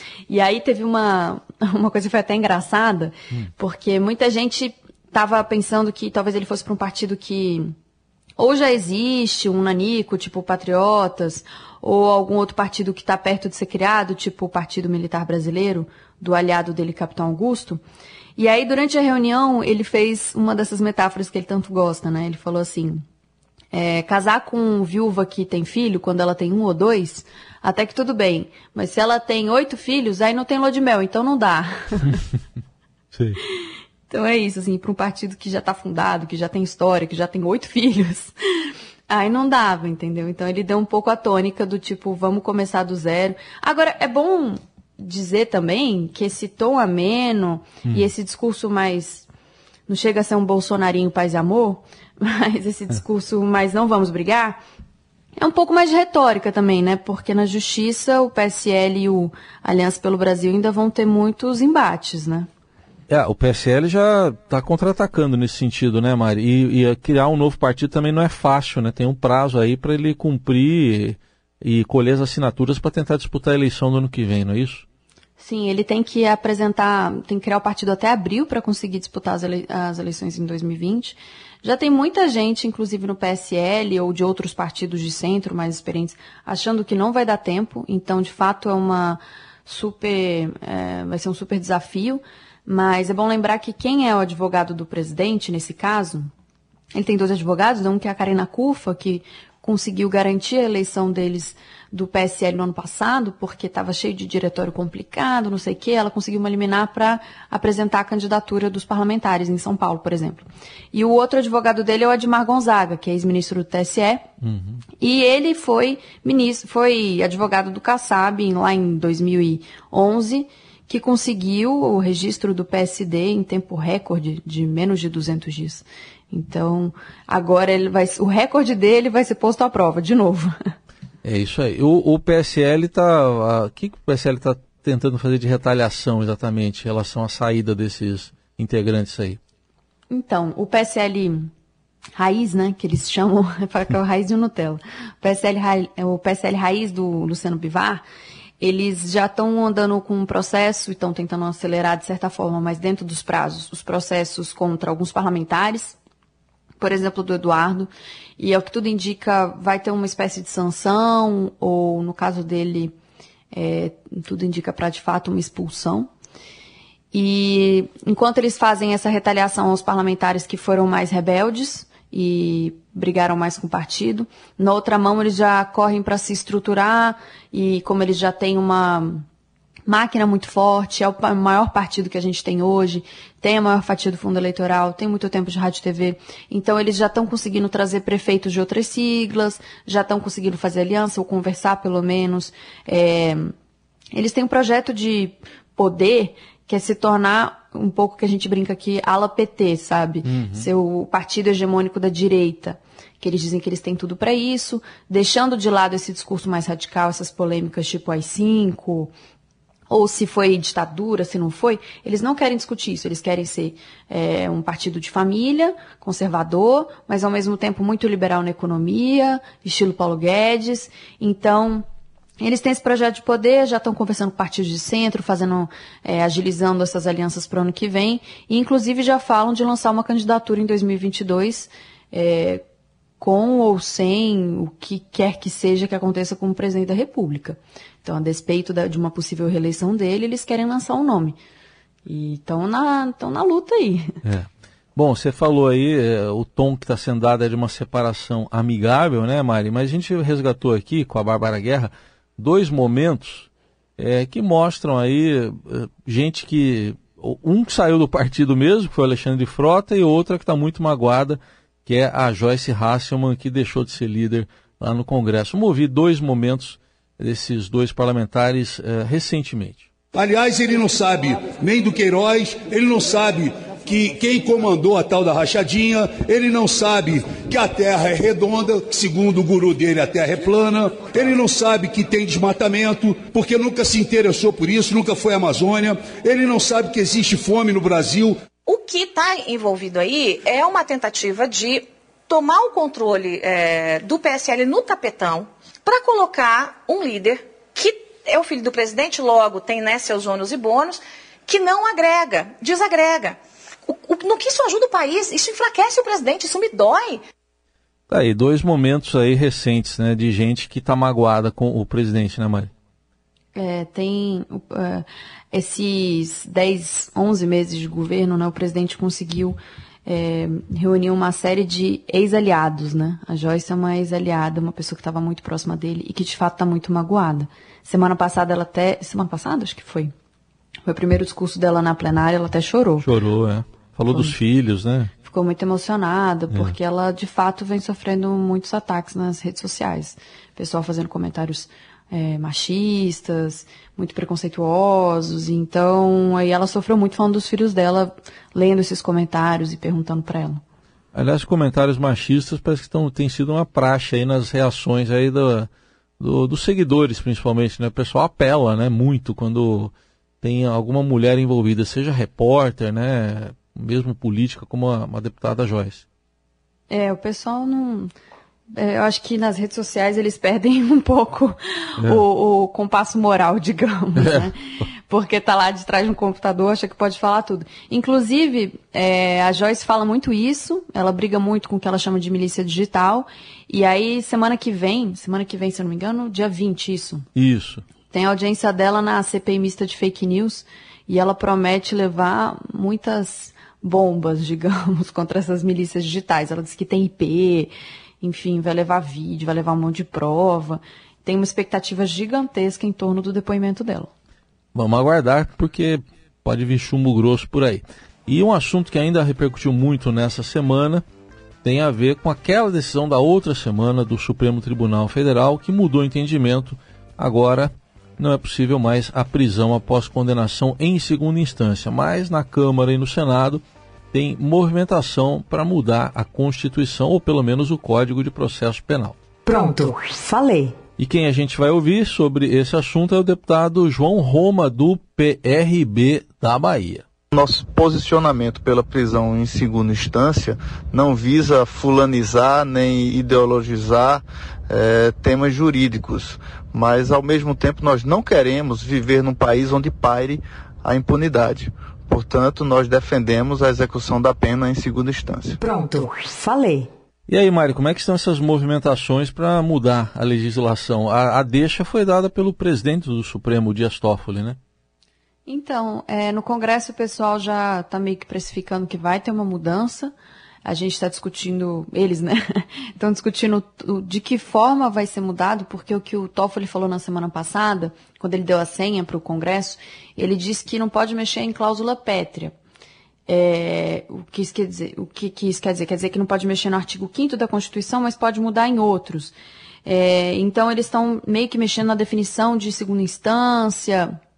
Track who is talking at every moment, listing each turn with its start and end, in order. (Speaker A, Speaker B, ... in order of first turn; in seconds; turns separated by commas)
Speaker A: 0.3-7.7, Speaker A: 8.4-17.8, Speaker A: 18.4-23.0, Speaker A: 23.7-32.2, Speaker B: 33.1-33.4, Speaker A: 34.1-38.3, Speaker A: 39.1-49.3, Speaker A: 49.9-54.6, Speaker A: 55.4-62.5, Speaker B: 63.1-74.8, Speaker A: 75.4-96.3, Speaker A: 96.9-114.2, Speaker B: 114.4-114.8, Speaker A: 115.0-130.5, Speaker B: 131.2-139.4, Speaker A: 140.1-141.5, Speaker A: 142.2-148.0, Speaker A: 148.6-156.0, Speaker A: 156.8-162.9, Speaker A: 163.5-166.1, Speaker A: 167.1-179.2, Speaker A: 179.9-193.5, Speaker A: 194.1-209.1, Speaker B: 200.2-200.7, Speaker A: 209.9-221.8, Speaker A: 222.4-232.6, Speaker A: 233.2-241.4, Speaker A: 242.0-244.1, Speaker B: 244.2-269.9, Speaker C: 270.1-288.4, Speaker D: 288.6-307.2, Speaker B: 308.1-312.7, Speaker A: 313.5-330.1, Speaker A: 330.8-333.1, Speaker B: 333.0-335.1, Speaker A: 334.1-334.4, Speaker A: 335.2-350.6, Speaker B: 351.1-355.7, Speaker B: 356.2-366.0, Speaker A: 366.9-368.1, Speaker A: 368.8-374.6, Speaker A: 375.1-387.2, Speaker B: 387.3-387.8, Speaker A: 388.1-404.1, Speaker B: 404.7-411.0, Speaker B: 411.6-429.2, Speaker E: 429.4-430.8, Speaker B: 431.0-437.0, Speaker F: 437.3-455.6, Speaker E: 455.6-456.9, Speaker B: 457.3-464.6, Speaker A: 465.4-470.1, Speaker A: 470.6-482.5, Speaker A: 483.3-494.1